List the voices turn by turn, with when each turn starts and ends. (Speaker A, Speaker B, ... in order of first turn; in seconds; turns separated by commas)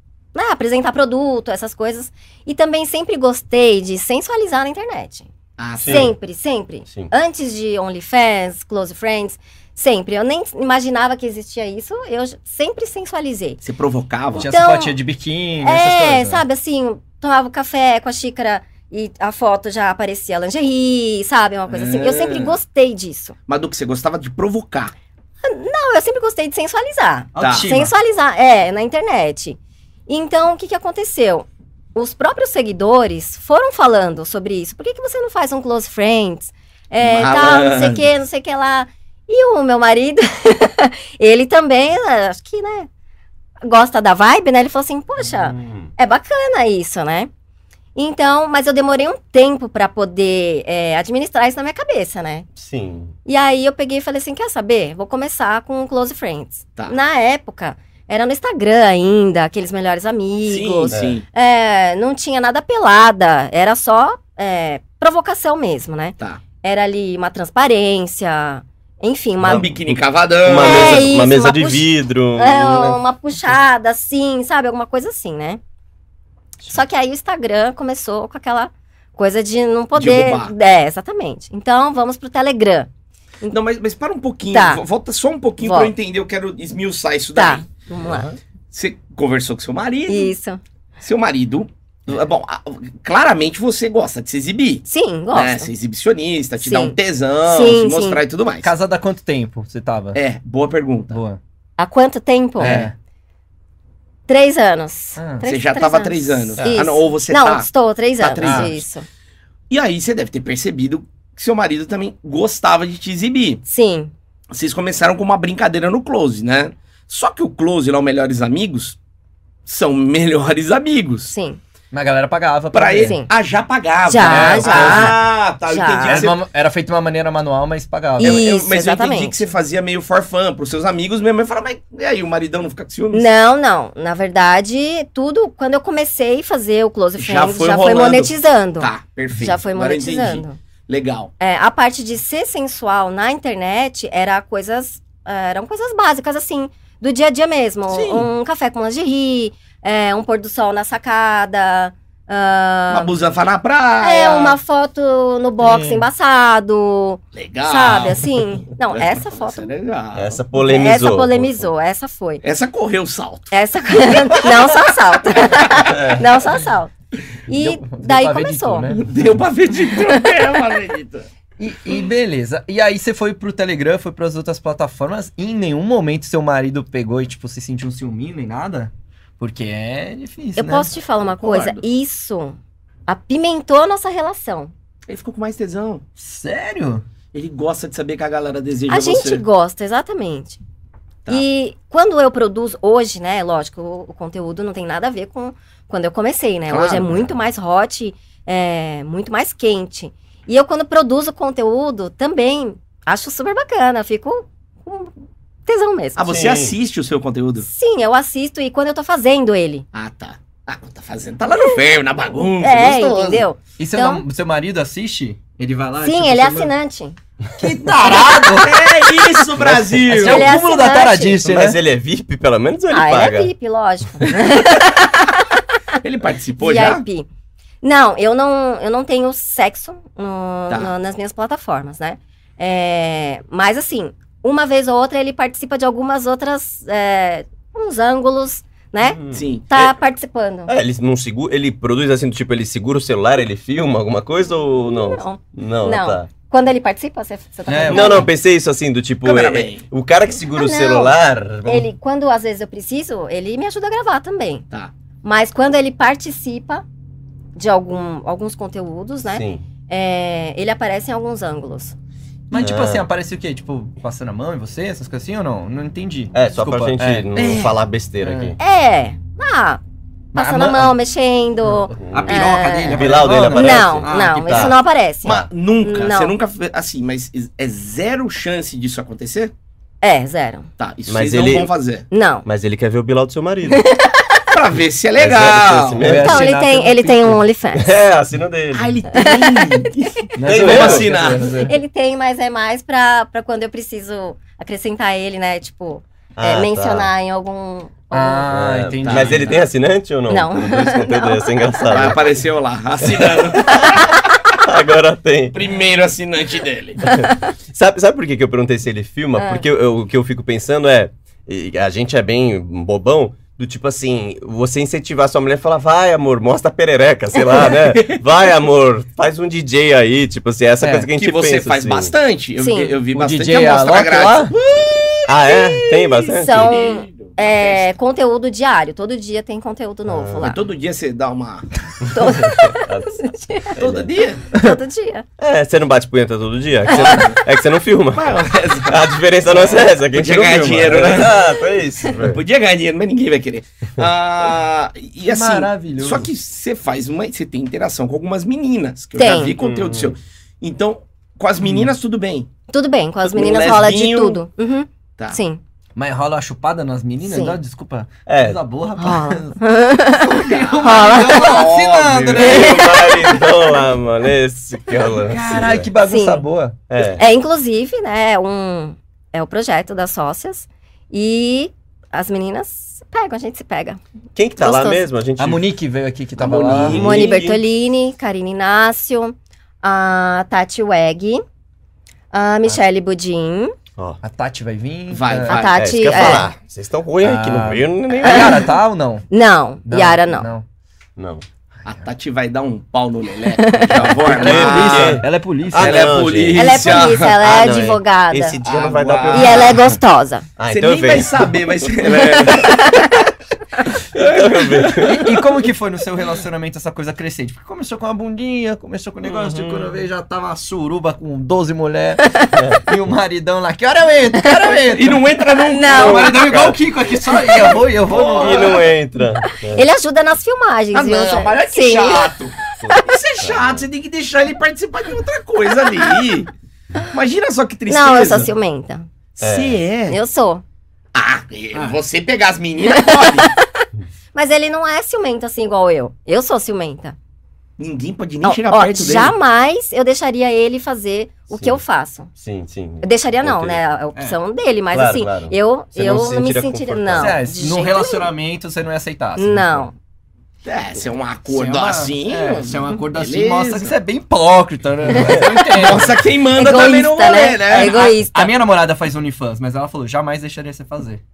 Speaker A: 0.3-5.3, Speaker B: 5.6-6.1, Speaker C: 5.8-6.1, Speaker A: 5.8-13.6, Speaker B: 13.6-14.5, Speaker A: 14.4-15.0, Speaker D: 14.4-16.4, Speaker A: 15.6-23.4, Speaker B: 21.7-22.6, Speaker B: 23.5-24.9, Speaker A: 25.4-42.9, Speaker D: 27.4-27.9, Speaker B: 27.4-27.7, Speaker B: 37.0-38.1, Speaker A: 43.6-47.3, Speaker C: 45.3-45.9, Speaker A: 48.0-52.5, Speaker C: 52.6-53.1, Speaker A: 53.3-69.7, Speaker B: 60.5-61.2, Speaker C: 60.9-61.2, Speaker C: 69.4-73.0, Speaker B: 69.4-71.1, Speaker A: 70.5-75.6, Speaker A: 76.7-82.9, Speaker B: 80.0-80.5, Speaker B: 83.5-87.7, Speaker A: 84.5-84.8, Speaker A: 85.6-85.9, Speaker A: 87.4-88.3, Speaker C: 88.0-88.4, Speaker B: 88.7-90.3, Speaker A: 90.1-90.6, Speaker B: 91.0-98.7, Speaker A: 94.9-95.7, Speaker A: 96.6-98.2, Speaker D: 98.6-100.2, Speaker B: 100.1-101.1, Speaker D: 101.1-101.4, Speaker A: 101.8-102.9, Speaker D: 102.6-102.9, Speaker B: 102.6-102.9, Speaker A: 104.3-109.1, Speaker D: 105.2-105.4, Speaker B: 105.4-107.7, Speaker B: 108.2-108.9, Speaker D: 108.4-108.7, Speaker B: 109.7-113.6, Speaker A: 113.7-114.1, Speaker B: 114.5-119.0, Speaker B: 119.7-121.3, Speaker A: 121.3-121.6, Speaker D: 121.9-123.2, Speaker B: 122.7-126.4, Speaker A: 123.0-123.3, Speaker A: 124.1-126.3, Speaker D: 124.2-125.2, Speaker D: 126.0-128.4, Speaker A: 128.2-129.4, Speaker B: 128.2-133.3, Speaker A: 133.1-140.6, Speaker B: 137.2-141.3, Speaker A: 141.4-153.1, Speaker B: 147.9-148.3, Speaker B: 152.9-154.6, Speaker A: 154.0-159.7, Speaker D: 155.6-156.1, Speaker B: 157.3-160.4, Speaker C: 160.2-161.7, Speaker A: 160.6-162.4, Speaker B: 162.4-164.6, Speaker A: 163.5-166.9, Speaker C: 165.9-166.4, Speaker A: 167.5-168.9, Speaker D: 167.5-169.4, Speaker B: 168.9-171.3, Speaker A: 169.9-170.5, Speaker D: 171.6-180.9, Speaker A: 180.6-182.6, Speaker B: 181.3-181.8, Speaker A: 183.1-184.7, Speaker B: 185.1-186.0, Speaker D: 186.2-187.1, Speaker B: 187.3-189.4, Speaker A: 188.9-190.6, Speaker A: 191.3-205.1, Speaker B: 196.7-197.3, Speaker A: 205.7-206.3, Speaker B: 206.2-207.7, Speaker C: 206.3-206.7, Speaker A: 207.7-209.8, Speaker B: 209.9-213.5, Speaker A: 212.6-214.2, Speaker D: 213.8-216.7, Speaker A: 216.0-217.2, Speaker D: 217.6-218.8, Speaker A: 218.1-218.4, Speaker B: 218.5-220.5, Speaker D: 220.0-221.8, Speaker A: 220.1-221.4, Speaker C: 221.4-223.5, Speaker A: 222.9-225.6, Speaker B: 226.0-227.0, Speaker A: 226.6-227.3, Speaker A: 227.8-240.7, Speaker C: 239.0-240.0, Speaker B: 239.3-239.7, Speaker C: 240.7-246.3, Speaker A: 244.8-248.3, Speaker D: 247.7-248.3, Speaker C: 247.9-251.9, Speaker B: 249.2-249.8, Speaker A: 250.5-254.7, Speaker A: 255.2-256.8, Speaker A: 257.6-261.9, Speaker C: 259.3-259.6, Speaker D: 262.5-267.3, Speaker C: 262.5-263.1, Speaker C: 266.3-268.6, Speaker B: 267.4-267.7, Speaker D: 268.2-268.6, Speaker A: 268.6-269.8, Speaker A: 270.3-276.4, Speaker D: 270.4-270.9, Speaker D: 271.6-274.8, Speaker C: 272.0-275.5, Speaker B: 275.2-279.5, Speaker A: 280.0-280.7, Speaker B: 280.8-282.1, Speaker C: 281.1-281.7, Speaker A: 282.1-282.5, Speaker C: 282.4-283.9, Speaker A: 283.7-284.4, Speaker B: 284.5-286.1, Speaker C: 285.2-286.5, Speaker D: 286.0-287.4, Speaker A: 286.2-287.9, Speaker C: 287.8-289.0, Speaker B: 288.7-291.6, Speaker A: 289.1-289.9, Speaker D: 290.4-291.8, Speaker C: 290.4-291.1, Speaker A: 291.5-298.5, Speaker C: 296.4-297.1, Speaker D: 298.1-299.6, Speaker C: 298.5-302.3, Speaker B: 299.0-299.7, Speaker A: 300.3-302.0, Speaker B: 301.9-304.1, Speaker C: 303.0-304.1, Speaker C: 304.6-305.6, Speaker B: 305.5-307.1, Speaker C: 307.1-322.1, Speaker A: 307.1-307.4, Speaker A: 309.4-309.6, Speaker B: 317.9-318.2, Speaker D: 320.8-321.1, Speaker B: 321.2-327.9, Speaker A: 322.6-323.0, Speaker D: 323.1-324.5, Speaker C: 325.3-326.9, Speaker A: 326.2-330.6, Speaker C: 330.1-330.5, Speaker B: 330.4-331.7, Speaker C: 332.0-334.1, Speaker A: 332.1-333.8, Speaker B: 333.8-334.4, Speaker A: 334.5-335.2, Speaker D: 334.5-334.8, Speaker C: 335.4-342.4, Speaker B: 336.9-337.4, Speaker A: 336.9-337.2, Speaker B: 338.1-341.4, Speaker A: 341.4-341.6, Speaker B: 342.2-352.5, Speaker D: 345.2-346.3, Speaker A: 349.2-349.5, Speaker C: 349.6-350.1, Speaker A: 352.7-355.6, Speaker B: 353.3-354.4, Speaker D: 356.0-359.6, Speaker A: 357.2-357.6, Speaker C: 358.3-358.6, Speaker A: 359.0-361.6, Speaker D: 360.1-362.8, Speaker B: 360.4-362.8, Speaker C: 362.4-365.9, Speaker A: 362.4-363.5, Speaker D: 365.2-366.8, Speaker B: 365.3-365.6, Speaker A: 366.0-366.4, Speaker C: 366.9-367.2, Speaker A: 367.0-374.0, Speaker C: 374.4-375.6, Speaker A: 374.6-375.1, Speaker D: 375.4-377.0, Speaker B: 376.4-377.4, Speaker C: 376.8-377.6, Speaker A: 376.9-381.4, Speaker A: 382.3-383.7, Speaker D: 384.2-385.6, Speaker B: 385.1-385.8, Speaker A: 385.5-386.5, Speaker C: 385.7-388.7, Speaker D: 387.2-389.3, Speaker A: 388.2-388.7, Speaker A: 389.3-390.5, Speaker D: 389.9-390.6, Speaker C: 391.2-391.4, Speaker B: 391.9-397.3, Speaker A: 393.6-394.2, Speaker D: 394.2-396.1, Speaker C: 394.2-400.0, Speaker A: 396.5-398.6, Speaker B: 398.6-399.9, Speaker A: 399.3-400.5, Speaker C: 400.6-401.5, Speaker B: 400.7-403.2, Speaker A: 402.0-403.2, Speaker B: 403.9-405.2, Speaker C: 404.1-405.4, Speaker D: 405.1-415.2, Speaker C: 409.2-410.0, Speaker C: 412.6-412.8, Speaker A: 414.4-414.7, Speaker B: 414.9-416.6, Speaker A: 415.7-416.4, Speaker D: 415.9-418.7, Speaker C: 415.9-416.8, Speaker B: 418.1-418.9, Speaker C: 418.3-419.9, Speaker A: 419.4-423.0, Speaker B: 420.9-426.5, Speaker C: 422.8-423.9, Speaker A: 425.9-426.1, Speaker B: 427.1-428.5, Speaker A: 427.9-429.1, Speaker B: 429.4-430.2, Speaker C: 429.4-429.8, Speaker A: 430.1-430.6, Speaker B: 431.1-433.5, Speaker A: 432.9-437.2, Speaker B: 437.8-439.3, Speaker A: 438.4-442.3, Speaker C: 441.5-441.8, Speaker C: 442.4-443.8, Speaker A: 443.0-448.3, Speaker C: 444.9-447.4, Speaker D: 447.2-449.9, Speaker A: 449.4-449.9, Speaker B: 450.6-453.9, Speaker D: 451.5-456.1, Speaker A: 455.1-455.9, Speaker C: 455.2-455.5, Speaker B: 455.7-458.2, Speaker A: 456.6-458.5, Speaker D: 457.7-461.2